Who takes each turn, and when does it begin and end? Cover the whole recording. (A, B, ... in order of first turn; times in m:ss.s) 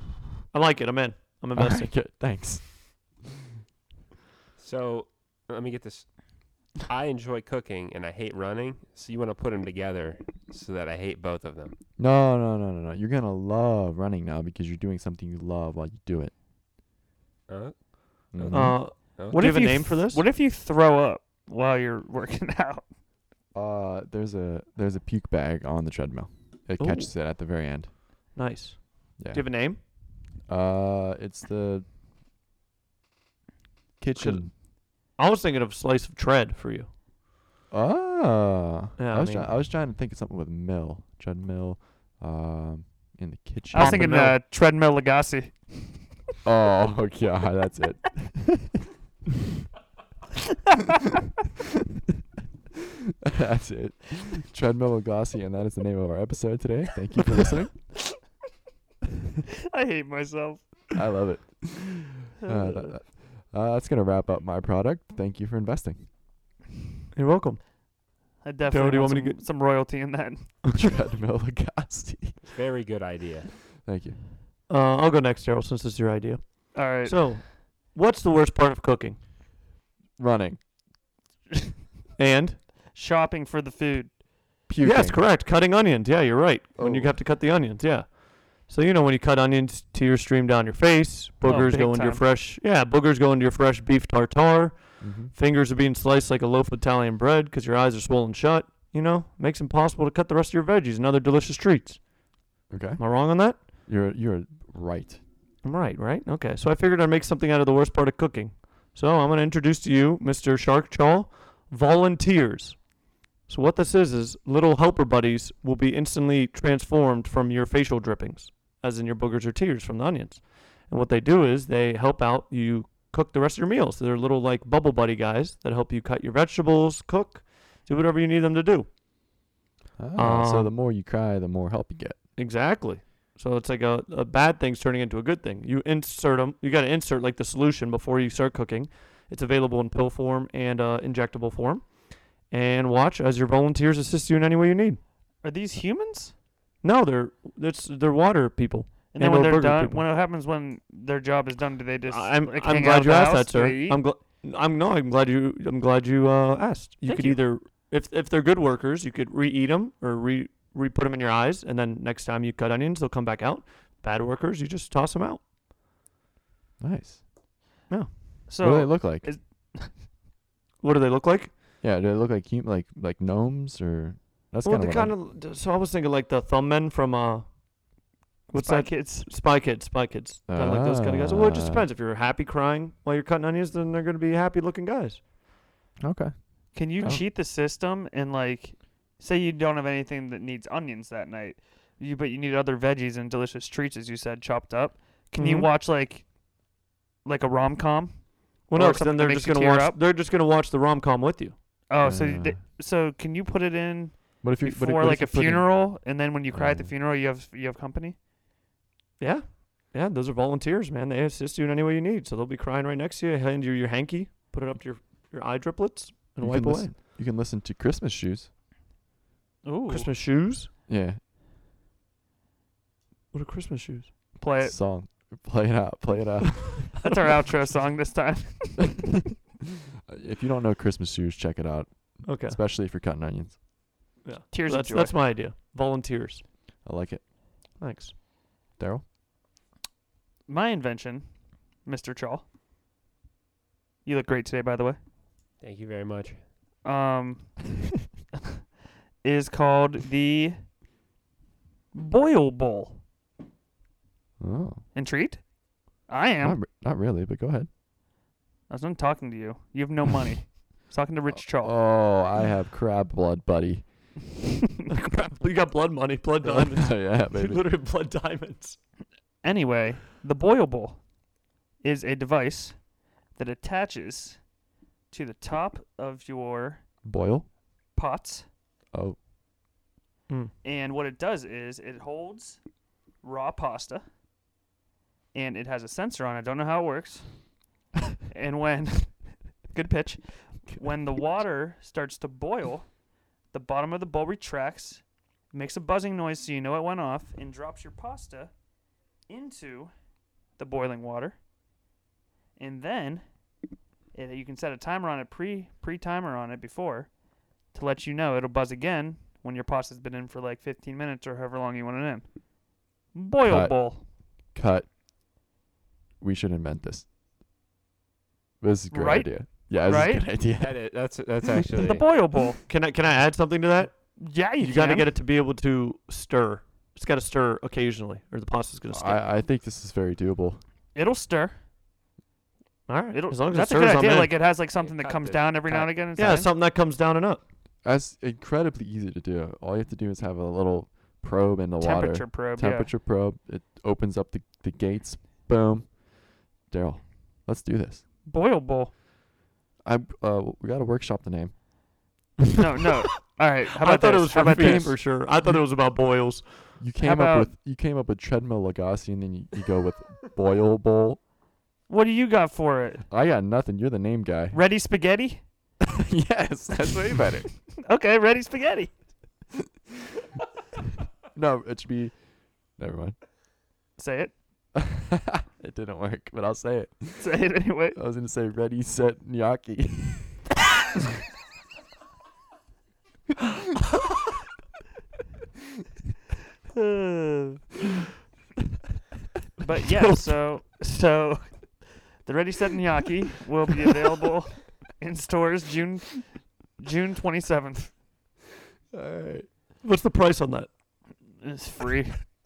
0:00.5-0:01.9 A
0:01.5-0:03.2 B
0:04.6-0:11.8 C
0:12.0-0:16.3 B
0:17.5-0:19.4 C
0:18.3-0:19.0 B
0:18.5-0:20.2 A
0:19.1-0:22.8 D
0:23.5-0:27.9 B
0:26.8-0:27.1 A
0:28.4-0:29.8 A
0:29.2-0:29.4 B
0:30.5-0:31.8 B
0:34.0-0:34.5 B
0:34.2-0:34.4 A
0:35.2-0:36.9 A
0:37.7-0:44.1 B
0:39.0-0:39.5 A
0:43.7-0:45.8 D
0:43.8-0:44.4 A
0:46.4-0:48.8 B
0:53.2-0:57.9 B
0:59.7-1:00.8 D
1:00.9-1:06.1 B
1:02.4-1:02.9 D
1:07.1-1:07.6 A
1:08.4-1:10.5 D
1:08.7-1:09.4 A
1:10.7-1:12.4 B
1:12.4-1:13.6 C
1:13.8-1:14.2 B
1:14.7-1:19.2 A
1:16.7-1:17.4 D
1:20.2-1:20.6 B
1:22.2-1:22.6 A
1:22.9-1:24.1 D
1:24.7-1:25.2 B
1:24.8-1:42.1 A
1:26.8-1:27.2 B
1:31.4-1:32.2 D
1:35.0-1:35.3 B
1:42.7-1:45.2 B
1:43.0-1:43.6 A
1:45.6-1:52.9 A
1:53.5-2:08.9 A
2:10.0-2:12.2 B
2:10.2-2:10.7 A
2:12.4-2:25.0 A
2:25.4-2:26.3 D
2:26.8-2:30.0 A
2:29.1-2:34.0 D
2:32.1-2:45.4 A
2:37.0-2:37.4 D
2:46.8-2:47.2 B
2:47.9-2:48.1 A
2:48.5-2:50.0 D
2:48.6-2:49.3 B
2:50.8-2:51.5 A
2:51.8-2:55.2 B
2:54.6-2:57.6 A
2:58.5-3:05.2 A
2:58.5-2:59.3 D
3:00.5-3:01.9 B
3:06.0-3:07.2 B
3:06.7-3:16.3 D
3:15.4-3:15.7 A
3:17.2-3:20.0 D
3:18.7-3:21.6 A
3:21.9-3:28.2 D
3:22.0-3:22.6 B
3:24.4-3:25.9 B
3:26.5-3:26.9 B
3:29.2-3:36.9 A
3:36.4-3:38.5 B
3:39.6-3:40.1 D
3:39.9-3:40.7 A
3:40.9-3:41.2 B
3:43.3-3:44.1 A
3:44.4-3:44.8 D
3:44.6-3:46.9 B
3:46.9-3:49.1 D
3:47.0-3:47.4 A
3:50.1-3:53.6 B
3:52.2-3:52.6 A
3:54.2-3:56.4 A
3:54.5-3:55.2 D
3:56.8-3:57.3 B
3:57.8-3:58.1 A
3:58.8-3:59.0 B
4:00.5-4:01.3 D
4:01.8-4:02.4 D
4:04.0-4:05.0 D
4:05.6-4:06.4 C
4:06.8-4:07.6 D
4:09.2-4:10.6 D
4:11.9-4:13.0 D
4:14.4-4:14.8 B
4:15.0-4:15.4 D
4:16.1-4:16.6 D
4:16.4-4:17.7 B
4:18.7-4:21.8 D
4:21.3-4:24.1 B
4:24.9-4:28.8 A
4:26.4-4:27.6 B
4:29.4-4:31.0 D
4:31.8-4:32.8 D
4:33.4-4:34.4 D
4:35.1-4:36.8 D
4:37.0-4:37.5 B
4:38.0-4:38.5 D
4:38.9-4:39.2 B
4:40.6-4:42.6 D
4:43.2-4:44.0 D
4:45.3-4:47.4 D
4:48.3-4:52.9 D
4:53.5-4:58.5 D
4:59.3-4:59.9 D
5:00.6-5:01.4 D
5:02.6-5:03.2 D
5:04.1-5:07.1 D
5:07.7-5:12.3 D
5:13.1-5:14.0 D
5:13.5-5:14.9 B
5:16.2-5:17.1 B
5:18.6-5:20.8 B
5:18.9-5:20.3 D
5:20.6-5:22.1 C
5:21.7-5:22.6 D
5:22.7-5:29.2 A
5:24.2-5:25.1 D
5:28.9-5:30.6 B
5:31.0-5:31.6 D
5:32.9-5:34.4 A
5:33.1-5:36.5 D
5:34.8-5:35.9 C
5:35.7-5:37.4 A
5:37.8-5:46.0 B
5:41.8-5:42.9 D
5:46.6-5:48.0 B
5:48.3-5:48.9 D
5:49.8-5:51.6 B
5:52.6-5:55.0 D
5:53.8-5:56.8 A
5:54.4-5:55.6 B
5:56.8-6:01.2 B
5:57.0-5:57.5 D
6:01.9-6:03.0 D
6:03.1-6:04.6 B
6:04.5-6:05.4 D
6:06.0-6:07.6 B
6:07.8-6:08.9 D
6:11.3-6:13.2 B
6:14.0-6:14.3 D
6:14.8-6:20.5 B
6:17.2-6:18.0 D
6:26.7-6:27.6 D
6:29.6-6:37.9 D
6:30.0-6:30.3 A
6:38.9-6:39.5 B
6:39.8-6:40.7 A
6:41.4-6:42.2 D